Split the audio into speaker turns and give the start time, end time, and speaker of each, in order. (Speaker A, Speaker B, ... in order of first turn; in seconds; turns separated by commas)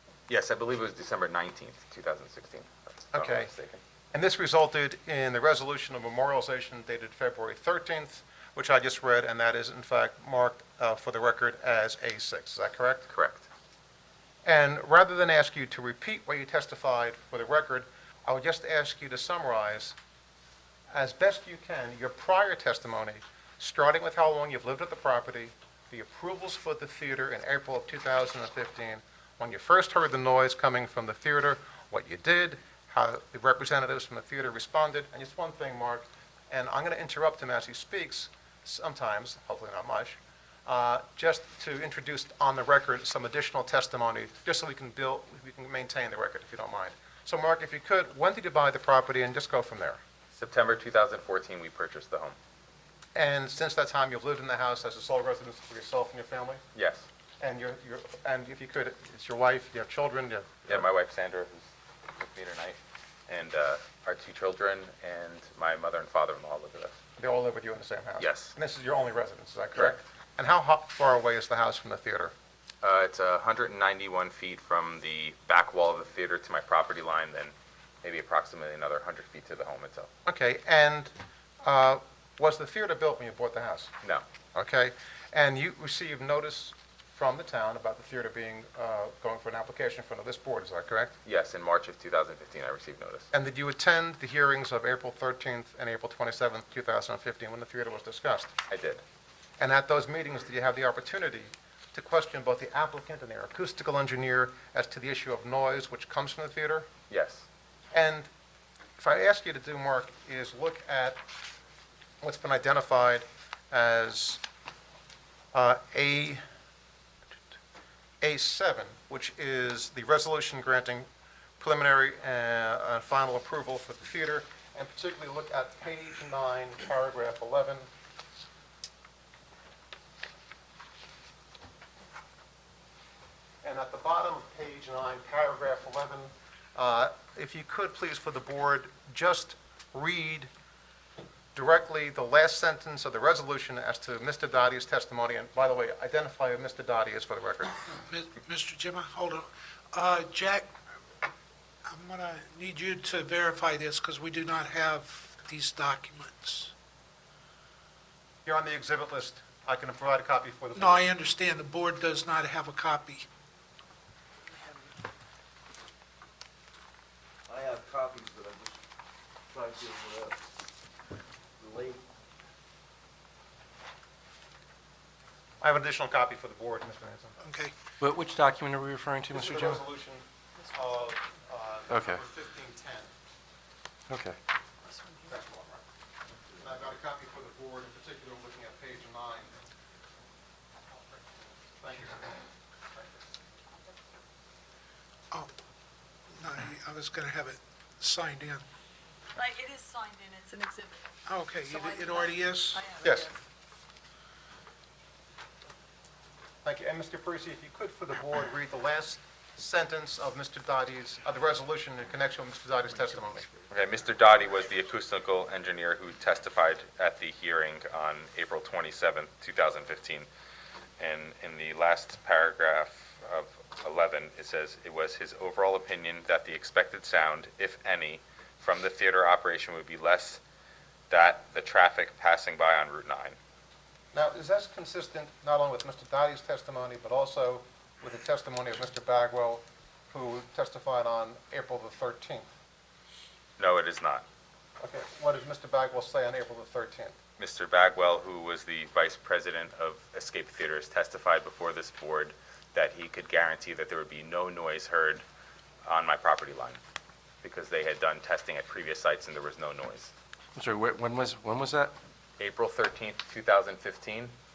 Speaker A: 0.3-3.8, Speaker B: 3.1-3.5, Speaker B: 4.1-13.1, Speaker A: 13.1-13.4, Speaker B: 14.4-20.0, Speaker B: 20.9-50.0, Speaker A: 50.4-52.4, Speaker B: 53.1-56.6, Speaker A: 56.8-57.1, Speaker B: 57.4-60.8, Speaker A: 60.7-66.9, Speaker B: 67.2-72.3, Speaker A: 68.2-68.5, Speaker A: 69.8-70.0, Speaker A: 72.8-80.1, Speaker B: 80.3-81.1, Speaker B: 81.6-83.9, Speaker B: 84.5-91.2, Speaker A: 91.2-93.3, Speaker B: 93.3-98.5, Speaker A: 98.7-99.0, Speaker B: 99.6-106.9, Speaker A: 107.1-107.5, Speaker B: 107.9-108.3, Speaker B: 109.0-111.2, Speaker B: 112.2-114.4, Speaker B: 115.5-116.4, Speaker B: 118.2-121.1, Speaker B: 121.6-127.9, Speaker B: 133.6-140.5, Speaker B: 141.6-147.8, Speaker C: 148.0-150.7, Speaker C: 151.9-156.7, Speaker B: 158.4-161.1, Speaker C: 160.8-163.3, Speaker D: 167.5-168.8, Speaker D: 169.5-170.4, Speaker D: 171.6-172.0, Speaker B: 175.6-177.4, Speaker C: 177.4-177.7, Speaker E: 178.0-179.8, Speaker B: 179.3-183.1, Speaker F: 180.7-181.1, Speaker E: 181.9-182.2, Speaker E: 184.1-184.4, Speaker B: 185.2-185.8, Speaker B: 186.5-189.6, Speaker B: 190.9-193.3, Speaker C: 196.3-198.7, Speaker F: 199.4-201.1, Speaker C: 201.3-202.9, Speaker F: 201.7-203.4, Speaker B: 203.0-203.3, Speaker B: 206.6-213.5, Speaker A: 213.7-220.3, Speaker A: 221.0-230.4, Speaker A: 231.1-233.4, Speaker B: 234.1-242.5, Speaker A: 243.6-244.2, Speaker B: 244.8-247.2, Speaker A: 247.4-255.2, Speaker A: 255.8-256.8, Speaker A: 257.4-260.1, Speaker E: 260.6-261.9, Speaker A: 262.4-264.3